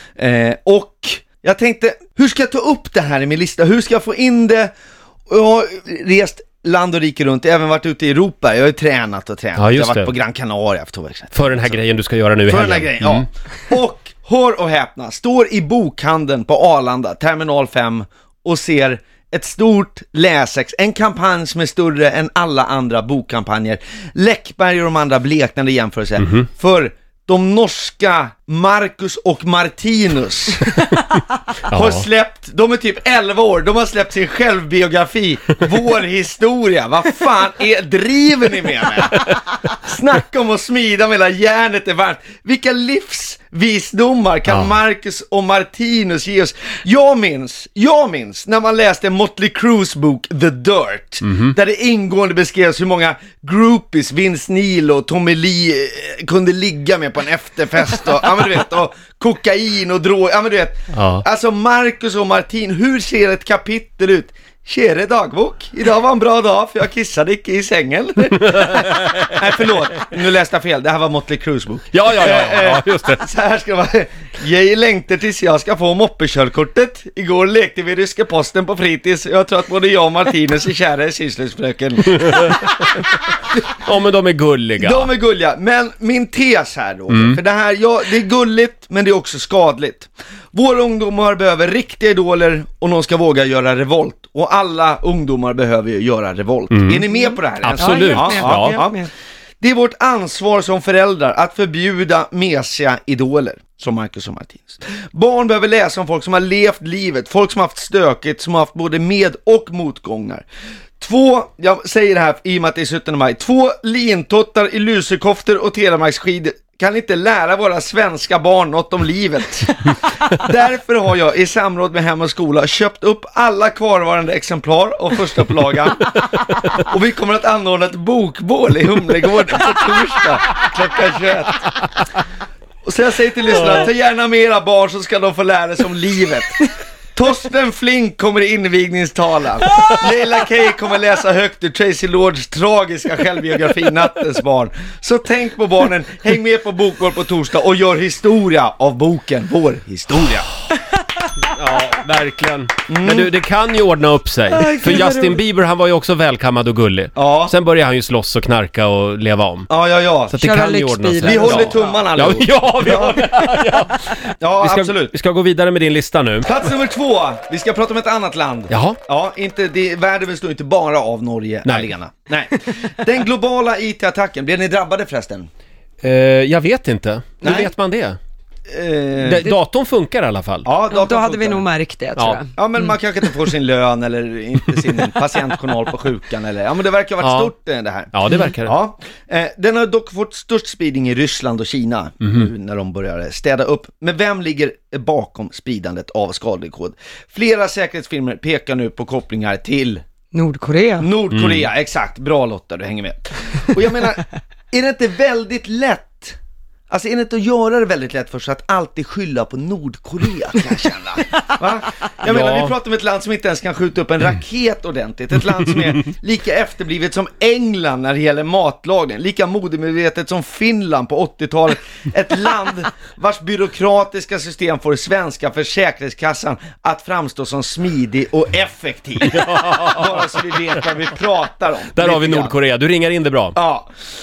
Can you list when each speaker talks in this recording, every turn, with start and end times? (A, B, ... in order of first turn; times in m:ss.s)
0:00.2-0:04.7 A
0:05.3-0:11.8 A
0:09.6-0:10.1 B
0:11.3-0:13.3 B
0:12.5-0:30.8 A
0:26.2-0:26.5 B
0:31.7-0:32.0 B
0:31.7-1:22.7 A
0:44.5-0:44.7 B
0:51.2-0:51.5 B
1:00.9-1:01.2 B
1:08.4-1:09.7 B
1:11.9-1:13.3 B
1:22.2-1:22.8 B
1:23.8-1:25.1 B
1:24.8-1:50.4 A
1:27.1-1:27.4 B
1:36.7-1:37.0 B
1:37.6-1:38.8 B
1:37.8-1:39.0 C
1:51.0-2:06.2 A
2:06.7-2:11.7 A
2:12.8-2:30.5 A
2:31.4-2:39.7 B
2:32.9-2:33.3 A
2:34.5-2:35.4 C
2:37.2-2:37.6 A
2:39.7-2:40.4 A
2:40.3-2:46.5 B
2:40.4-2:42.0 C
2:41.2-2:43.2 A
2:44.4-2:45.2 A
2:46.4-2:55.5 A
2:48.7-2:49.0 B
2:56.0-2:58.2 B
2:57.4-2:57.7 A
2:58.7-2:59.5 A
2:59.2-3:00.7 B
3:00.6-3:01.7 A
3:00.9-3:02.6 C
3:02.6-3:20.0 A
3:07.2-3:07.5 B
3:08.1-3:08.7 B
3:20.3-3:21.1 C
3:21.0-3:26.4 A
3:21.3-3:21.7 B
3:26.9-3:52.6 A
3:32.2-3:32.7 B
3:49.3-3:50.3 B
3:51.9-3:53.6 B
3:53.6-3:53.9 A